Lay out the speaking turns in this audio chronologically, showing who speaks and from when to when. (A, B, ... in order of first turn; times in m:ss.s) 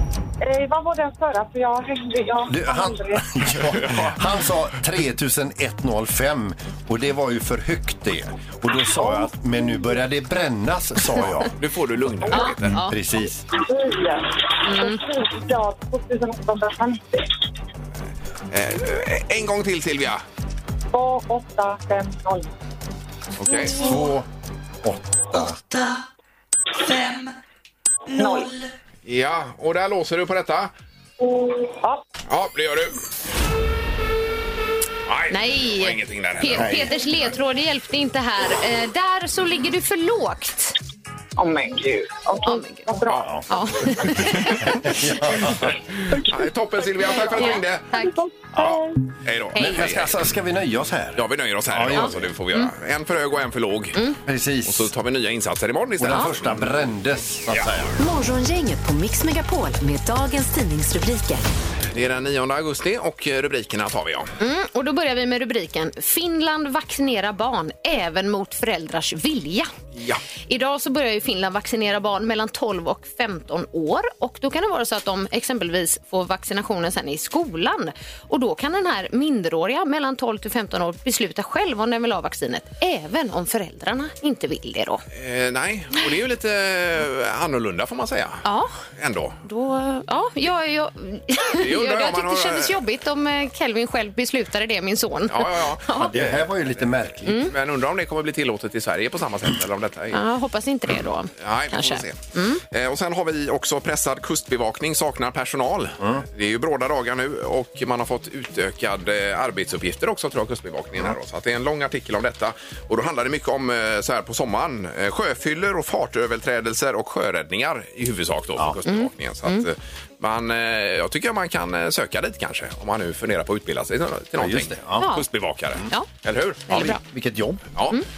0:00.4-0:03.3 A
0:02.5-0:11.5 B
0:03.8-0:04.2 C
0:11.6-0:12.8 C
0:12.3-0:13.0 D
0:12.4-0:13.4 B
0:13.5-0:17.3 A
0:14.6-0:15.0 D
0:18.5-0:20.2 C
0:20.9-0:22.5 A
0:23.4-0:24.0 C
0:23.7-0:24.3 B
0:24.8-0:25.6 B
0:25.3-0:26.0 E
0:26.8-0:27.4 E
0:28.1-0:28.7 E
0:28.2-0:28.5 A
0:29.1-0:30.7 C
0:31.2-0:32.0 A
0:32.3-0:33.0 C
0:35.1-0:36.9 C
0:35.3-0:40.8 D
0:36.6-0:36.9 B
0:41.4-0:43.4 A
0:42.4-0:42.9 D
0:43.1-0:43.4 C
0:43.5-0:44.9 D
0:44.7-0:45.7 B
0:45.4-0:47.9 C
0:47.0-0:49.0 A
0:47.3-0:48.2 D
0:48.6-0:50.2 C
0:49.6-0:49.8 D
0:49.6-0:52.3 B
0:51.2-0:54.0 C
0:52.0-0:52.7 D
0:54.2-0:54.9 B
0:54.6-0:56.7 C
0:56.0-0:58.0 B
0:58.0-1:01.4 F
1:01.9-1:04.3 C
1:04.4-1:09.7 D
1:10.0-1:10.2 C
1:10.5-1:25.0 D
1:25.1-1:29.4 C
1:28.4-1:28.8 D
1:29.4-1:36.1 D
1:31.6-1:32.8 C
1:35.3-1:36.5 C
1:36.0-1:37.4 B
1:37.3-1:37.5 D
1:37.3-1:40.2 C
1:40.1-1:42.6 D
1:41.4-2:06.9 C
1:58.9-1:59.7 D
2:04.4-2:05.1 B
2:05.0-2:05.3 D
2:06.7-2:07.0 D
2:06.7-2:07.7 B